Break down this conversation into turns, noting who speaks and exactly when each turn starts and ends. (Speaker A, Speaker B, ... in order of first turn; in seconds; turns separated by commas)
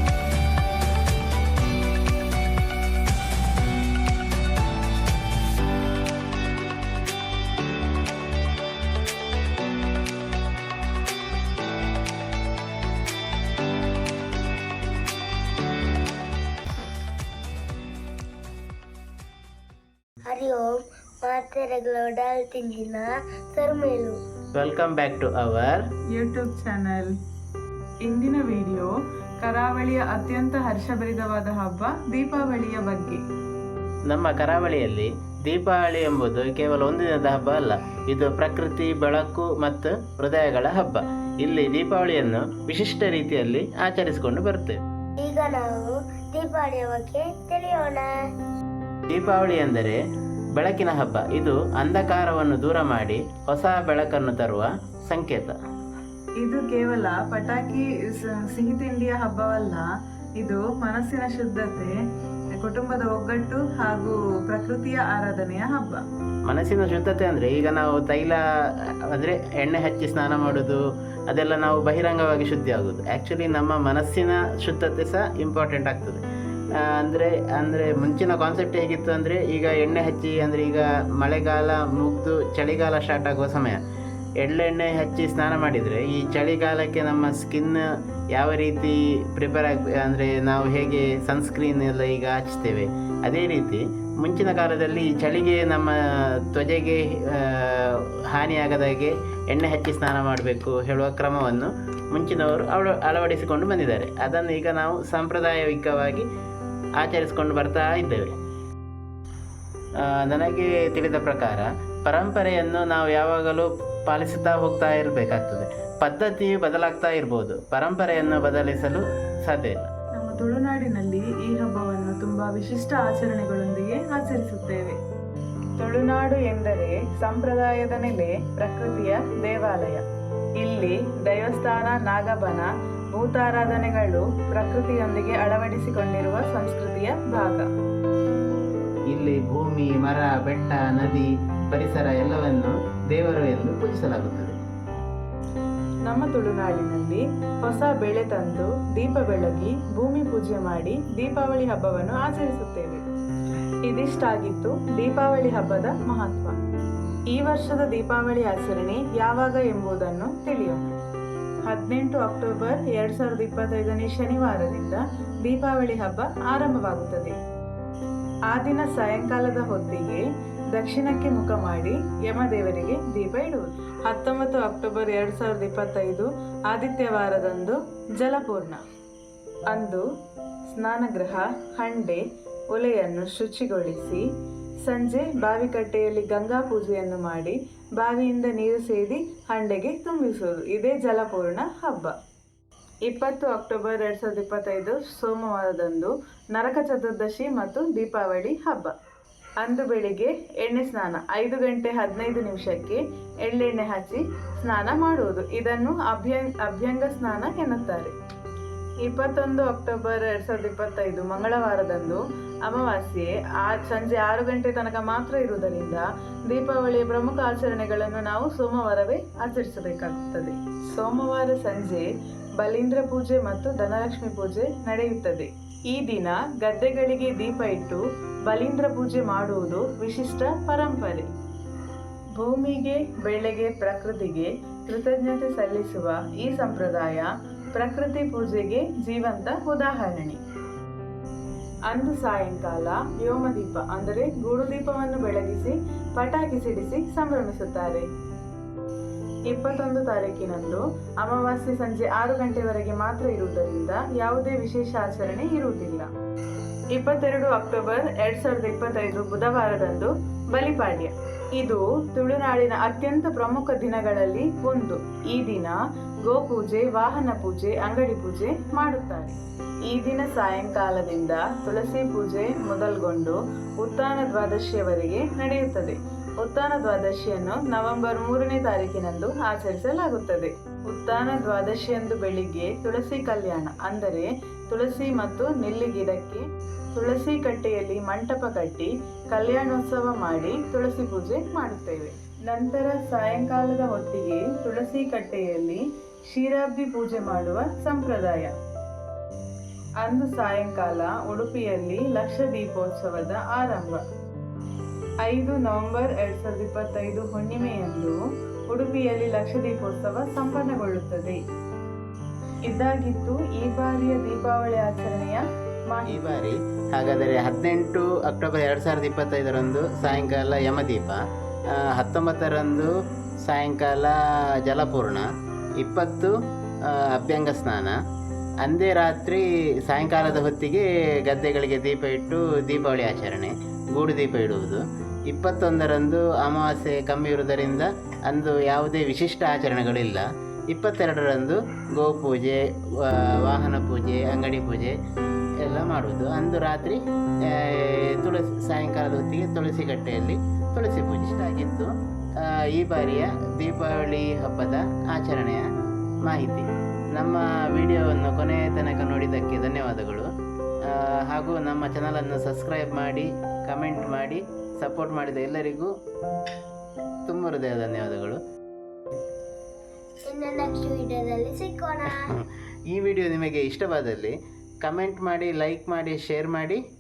Speaker A: 20.2-24.2, Speaker B: 24.5-25.8, Speaker C: 26.1-27.1, Speaker C: 28.0-33.2, Speaker B: 34.1-44.8, Speaker A: 45.2-48.1, Speaker B: 49.1-50.0, Speaker B: 50.5-55.6, Speaker C: 56.4-59.9, Speaker C: 60.4-61.9, Speaker C: 62.5-66.0, Speaker B: 66.5-68.4, Speaker B: 69.1-76.2, Speaker B: 76.7-83.8, Speaker B: 84.4-106.2, Speaker B: 107.0-108.3, Speaker B: 110.0-119.9, Speaker C: 120.2-125.0, Speaker C: 125.8-130.0, Speaker C: 130.6-137.7, Speaker B: 139.1-144.5, Speaker C: 146.1-153.0, Speaker C: 153.8-156.6, Speaker C: 157.3-160.9, Speaker C: 161.7-167.3, Speaker C: 168.5-178.8, Speaker C: 179.7-180.0, Speaker C: 180.7-184.2, Speaker C: 184.9-192.1, Speaker C: 193.1-198.9, Speaker C: 199.6-208.1, Speaker C: 209.0-222.1, Speaker C: 222.6-231.3, Speaker C: 232.4-240.4, Speaker C: 241.9-248.1, Speaker C: 249.5-256.1, Speaker C: 256.9-269.4, Speaker C: 269.9-298.5, Speaker C: 300.0-304.0, Speaker C: 305.2-308.2, Speaker C: 308.7-311.4, Speaker C: 312.7-316.2, Speaker B: 316.1-321.2, Speaker B: 321.7-322.9, Speaker B: 323.4-325.3, Speaker B: 325.8-328.0, Speaker B: 328.6-344.9, Speaker B: 345.6-355.7, Speaker B: 356.2-360.3, Speaker B: 360.8-365.9, Speaker B: 367.3-368.4, Speaker A: 370.2-372.3, Speaker B: 372.1-376.8